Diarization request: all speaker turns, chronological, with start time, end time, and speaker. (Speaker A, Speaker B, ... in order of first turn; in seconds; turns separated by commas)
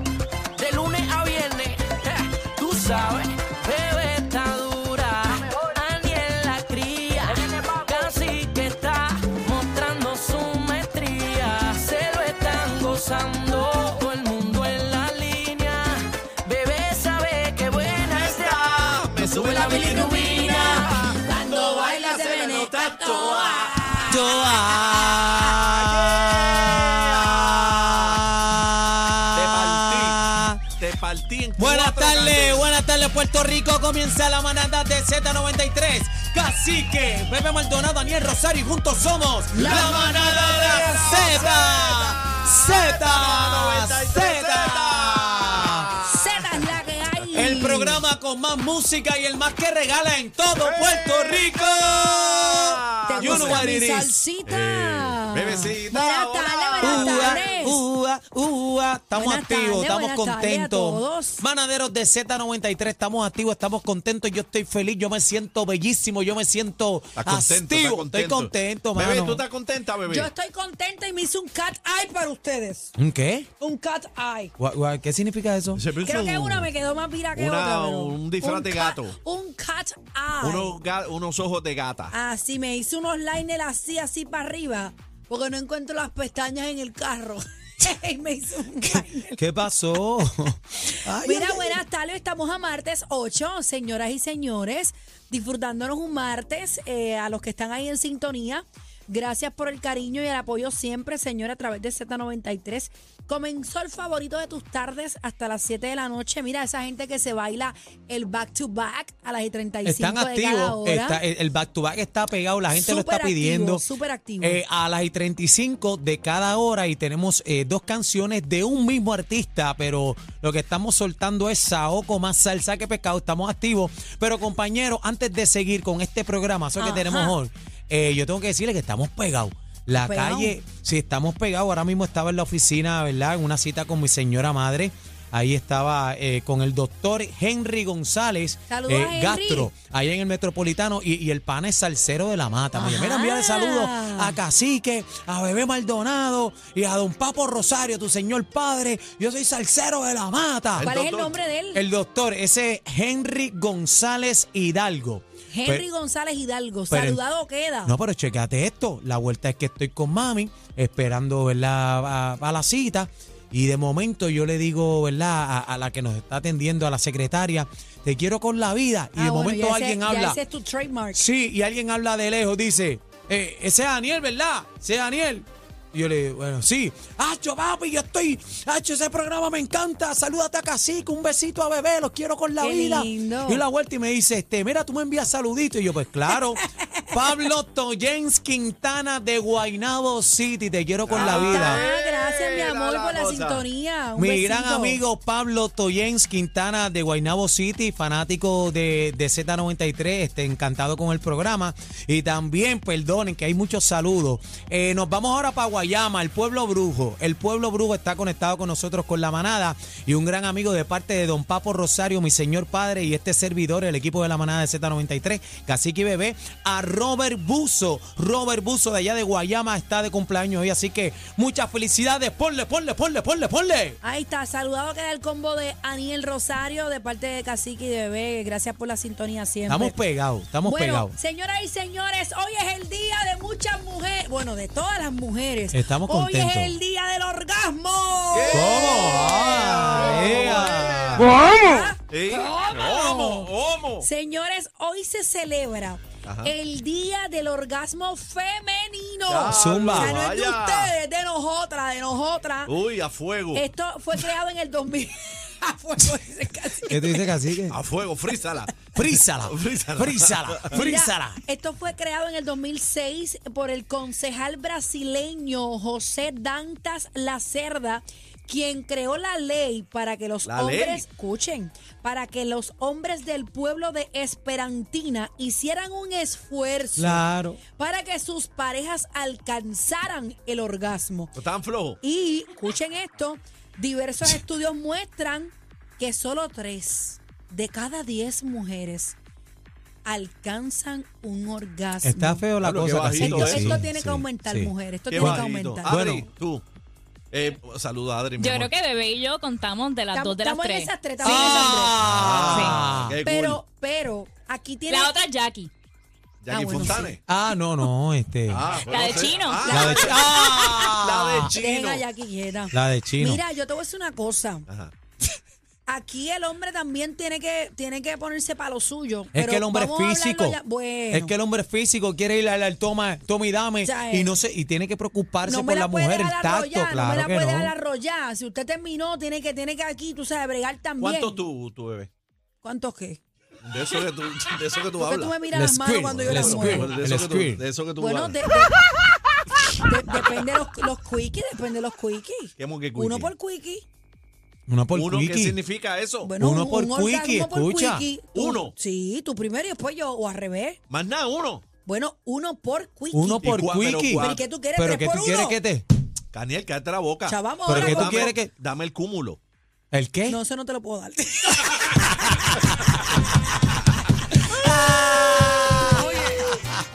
Speaker A: 0.6-18.7, Speaker B: 18.1-23.8, Speaker C: 19.2-25.2, Speaker A: 19.4-20.8, Speaker D: 24.1-30.6, Speaker B: 25.5-28.3, Speaker B: 29.3-32.7, Speaker D: 31.6-45.9, Speaker C: 39.5-41.5, Speaker B: 39.5-46.6, Speaker C: 46.0-48.0, Speaker D: 47.3-54.2, Speaker B: 50.6-53.9, Speaker C: 53.0-57.8, Speaker B: 54.5-57.6, Speaker D: 56.8-69.4, Speaker C: 59.1-61.4, Speaker B: 67.2-70.3, Speaker C: 70.1-72.9, Speaker D: 73.0-73.5, Speaker C: 73.6-74.5, Speaker D: 74.6-75.8, Speaker B: 75.7-76.7, Speaker C: 76.0-80.8, Speaker B: 77.3-79.2, Speaker B: 80.4-82.1, Speaker C: 82.1-89.4, Speaker D: 88.8-91.8, Speaker C: 91.2-111.2, Speaker D: 109.8-113.8, Speaker C: 112.7-114.6, Speaker D: 114.4-150.9, Speaker C: 126.8-127.4, Speaker C: 129.9-130.6, Speaker C: 138.7-139.7, Speaker C: 142.7-144.4, Speaker B: 150.8-151.4, Speaker C: 150.8-151.8, Speaker D: 151.7-155.8, Speaker C: 155.5-158.0, Speaker D: 156.9-157.2, Speaker D: 157.8-170.4, Speaker C: 169.1-171.2, Speaker D: 171.1-191.8, Speaker C: 182.6-183.6, Speaker B: 191.1-193.6, Speaker C: 191.1-195.0, Speaker D: 194.2-224.0, Speaker C: 224.0-230.0, Speaker D: 229.7-231.1, Speaker C: 230.6-252.7, Speaker D: 235.7-236.7, Speaker B: 238.3-241.5, Speaker D: 238.5-241.3, Speaker B: 242.1-244.1, Speaker B: 246.2-246.5, Speaker B: 249.3-250.9, Speaker D: 249.4-250.2, Speaker B: 252.7-253.7, Speaker C: 253.5-257.5, Speaker D: 256.9-257.8, Speaker B: 257.7-260.8, Speaker D: 258.9-261.4, Speaker C: 260.7-281.3, Speaker B: 270.4-271.0, Speaker D: 277.0-277.6, Speaker B: 281.4-282.0, Speaker C: 282.0-289.1, Speaker C: 290.0-292.5, Speaker D: 292.0-296.3, Speaker B: 292.6-293.8, Speaker C: 293.1-295.9, Speaker B: 295.1-296.6, Speaker B: 297.3-298.8, Speaker E: 298.4-301.8, Speaker C: 300.1-302.0, Speaker D: 301.2-303.2, Speaker B: 302.0-303.6, Speaker E: 302.3-302.9, Speaker C: 303.2-305.4, Speaker E: 304.9-305.7, Speaker B: 306.4-307.2, Speaker C: 306.5-307.2, Speaker D: 307.3-308.7, Speaker B: 308.5-312.0, Speaker E: 308.8-309.8, Speaker C: 309.6-310.8, Speaker D: 309.7-311.5, Speaker C: 311.5-314.7, Speaker D: 312.7-313.4, Speaker C: 315.9-321.3, Speaker D: 319.3-320.6, Speaker D: 321.1-327.7, Speaker C: 323.8-324.3, Speaker C: 325.4-331.4, Speaker B: 331.0-332.1, Speaker C: 332.6-333.2, Speaker B: 333.6-335.4, Speaker C: 334.9-337.0, Speaker D: 335.5-337.6, Speaker B: 336.0-338.4, Speaker C: 338.0-338.8, Speaker C: 339.8-343.8, Speaker B: 342.6-343.3, Speaker D: 344.7-345.6, Speaker B: 344.9-346.3, Speaker C: 346.2-350.8, Speaker D: 346.4-348.1, Speaker B: 348.3-348.7, Speaker B: 350.9-351.6, Speaker C: 351.8-353.5, Speaker D: 353.1-355.9, Speaker B: 353.4-354.4, Speaker C: 354.1-355.6, Speaker B: 356.3-359.4, Speaker C: 357.2-358.4, Speaker D: 357.7-358.5, Speaker D: 359.9-360.4, Speaker C: 360.3-362.3, Speaker D: 364.3-366.7, Speaker C: 365.9-366.5